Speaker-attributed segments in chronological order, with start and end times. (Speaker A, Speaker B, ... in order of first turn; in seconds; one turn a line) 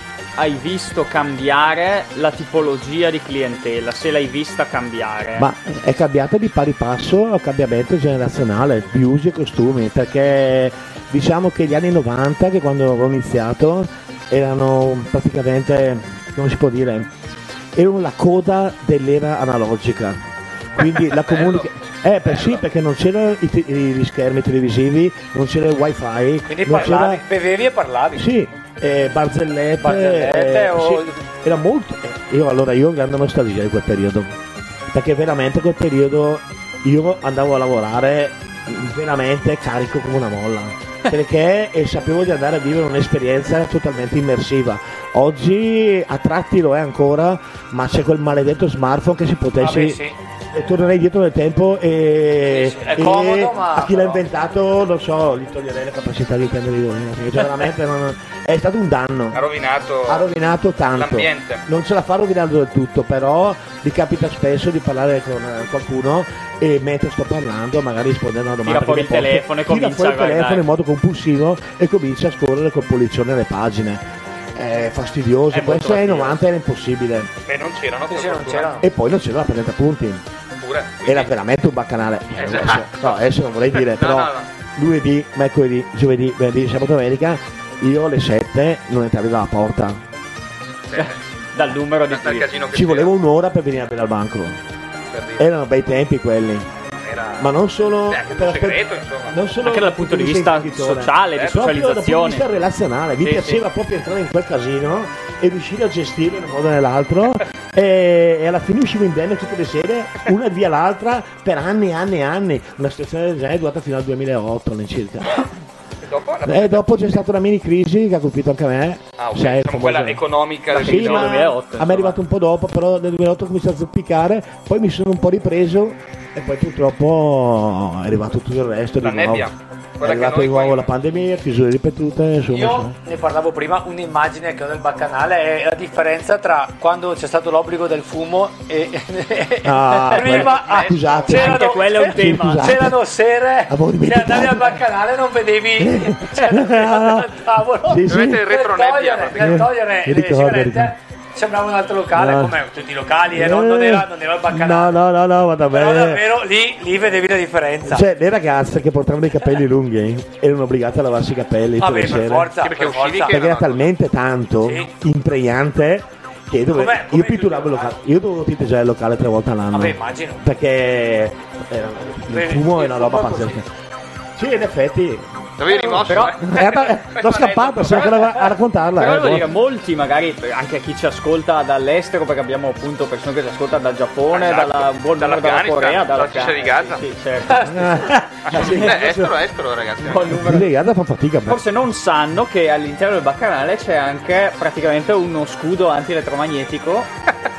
Speaker A: 0.4-5.5
Speaker B: 5.4-17.1
Speaker B: 17.7-20.2
Speaker B: 20.8-27.2
Speaker C: 20.8-21.7
Speaker C: 22.2-22.6
Speaker D: 26.5-28.3
Speaker B: 28.1-34.3
Speaker D: 29.8-31.2
Speaker B: 34.9-59.4
Speaker D: 49.6-50.1
Speaker D: 52.5-54.2
Speaker C: 59.3-60.2
Speaker B: 60.0-74.0
Speaker C: 60.9-61.6
Speaker A: 68.6-70.7
Speaker B: 74.5-77.3
Speaker A: 75.5-76.4
Speaker C: 77.5-78.8
Speaker D: 78.1-78.8
Speaker B: 78.8-80.2
Speaker C: 80.6-81.3
Speaker B: 81.0-90.0
Speaker C: 82.3-84.5
Speaker C: 90.9-91.2
Speaker A: 90.9-92.5
Speaker C: 92.0-93.1
Speaker B: 92.7-94.6
Speaker C: 95.1-95.5
Speaker B: 95.4-96.7
Speaker C: 97.0-97.5
Speaker B: 97.4-115.5
Speaker C: 98.1-99.4
Speaker A: 99.6-102.5
Speaker C: 101.3-101.6
Speaker A: 103.2-103.6
Speaker C: 116.0-116.9
Speaker B: 116.4-129.5
Speaker C: 119.2-121.4
Speaker A: 120.7-122.2
Speaker C: 129.0-130.9
Speaker B: 130.0-132.9
Speaker D: 132.5-155.0
Speaker B: 139.6-143.1
Speaker C: 140.2-141.4
Speaker A: 141.3-142.7
Speaker B: 143.7-144.8
Speaker B: 145.8-148.5
Speaker C: 148.1-149.7
Speaker B: 149.4-150.9
Speaker B: 152.1-152.6
Speaker B: 153.3-156.3
Speaker D: 155.7-158.1
Speaker B: 157.8-162.6
Speaker D: 161.8-163.4
Speaker C: 162.6-163.9
Speaker B: 163.3-173.7
Speaker D: 164.6-164.9
Speaker D: 166.7-167.9
Speaker D: 169.7-170.4
Speaker D: 172.3-173.6
Speaker B: 174.3-175.3
Speaker C: 175.6-178.4
Speaker B: 175.8-179.5
Speaker A: 176.0-176.3
Speaker A: 179.0-187.7
Speaker C: 184.3-187.0
Speaker D: 187.5-187.9
Speaker B: 187.6-189.4
Speaker C: 188.4-190.3
Speaker A: 190.0-190.7
Speaker B: 190.3-191.7
Speaker A: 191.5-197.1